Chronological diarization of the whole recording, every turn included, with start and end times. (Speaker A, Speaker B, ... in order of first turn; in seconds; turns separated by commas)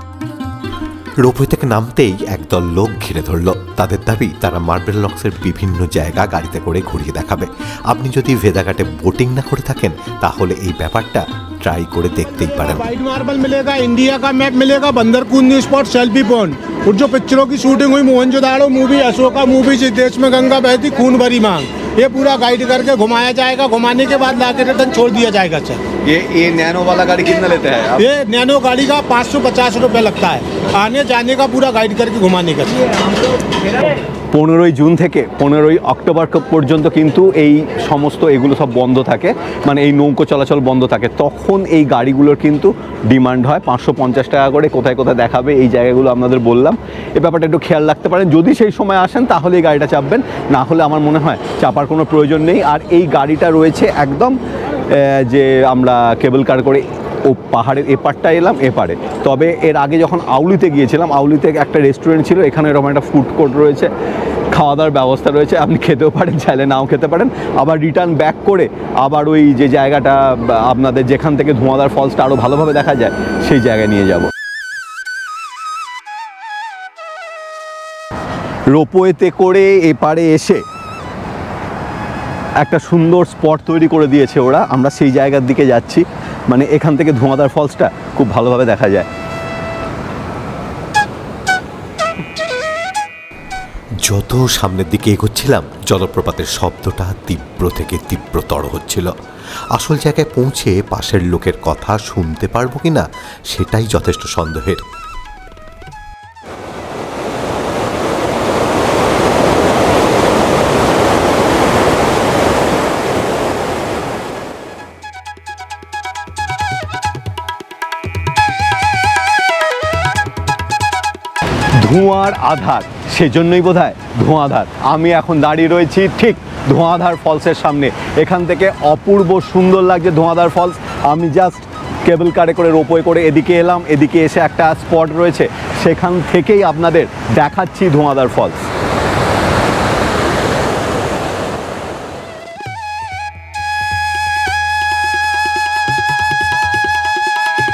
Speaker A: 1.2-12.9, Speaker B: 12.9-25.9, Speaker C: 25.9-28.1, Speaker B: 28.0-32.8, Speaker C: 34.3-63.9, Speaker C: 64.5-74.3, Speaker C: 78.7-80.6, Speaker C: 82.6-89.1, Speaker A: 94.0-99.1, Speaker A: 99.7-104.8, Speaker C: 121.8-138.7